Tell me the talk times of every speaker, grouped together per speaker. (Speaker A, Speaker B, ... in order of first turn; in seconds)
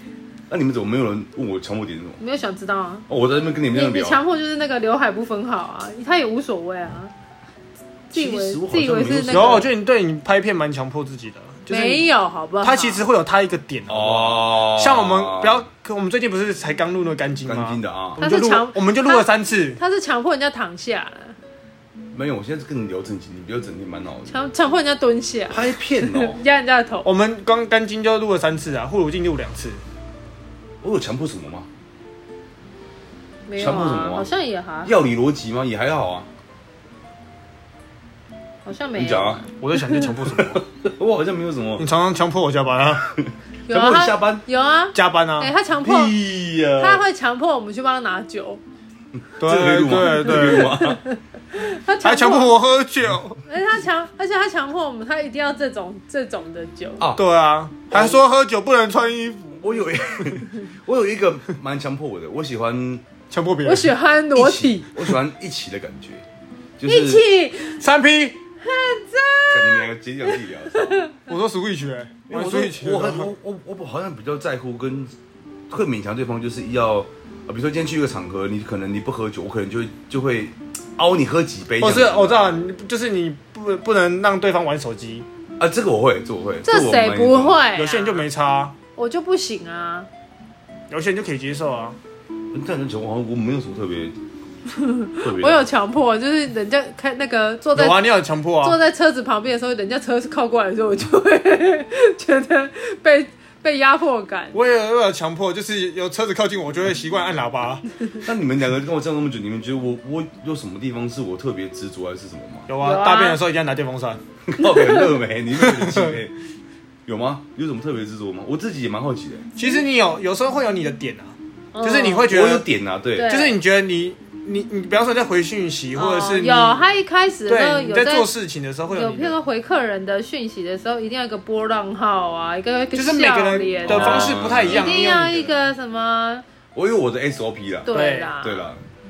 Speaker A: 0.5-2.2, 3.1-4.2, 8.1-9.7, 13.9-15.7, 17.4-18.2, 22.1-24.4, 25.5-26.4, 30.8-31.7, 33.6-34.3, 34.8-36.3, 39.0-39.4, 40.3-41.9, 43.1-44.4, 45.8-47.0, 49.3-51.0, 57.0-57.2, 57.9-58.2, 59.6-63.0, 64.3-66.2, 66.8-67.2, 69.5-71.1, 72.3-75.2, 75.7-82.6, 85.6-87.6, 92.5-94.2, 95.2-95.7, 108.2-112.7, 114.5-116.4, 117.1-119.5, 122.3-123.3, 133.8-135.1, 136.8-138.8
Speaker B: 2.2-3.1, 3.7-7.1, 8.1-9.7, 11.7-13.1, 18.2-21.4, 24.3-27.1, 33.5-34.9, 38.6-39.5, 43.7-46.2, 46.8-48.6, 50.3-52.6, 53.4-57.1, 63.6-64.9, 66.9-67.8, 68.6-71.2, 86.7-88.3, 89.0-90.1, 94.7-104.6, 112.8-113.4, 114.6-115.1, 119.6-119.8, 121.7-122.3, 123.2-123.6, 126.0-128.3, 128.9-136.4, 137.9-138.7
Speaker C: 9.3-12.1, 12.6-19.8, 27.0-29.8, 39.6-40.6, 41.8-43.1, 44.9-45.5, 49.4-50.8, 52.0-53.4, 57.2-59.7, 63.3-63.9, 67.8-68.4, 71.3-73.3, 81.8-85.2, 87.8-88.8, 90.9-92.0, 97.8-98.8, 104.5-107.9, 112.7-114.2, 115.6-116.2, 119.6-122.7, 123.2-126.8, 127.5-129.4, 132.9-135.5, 137.9-138.3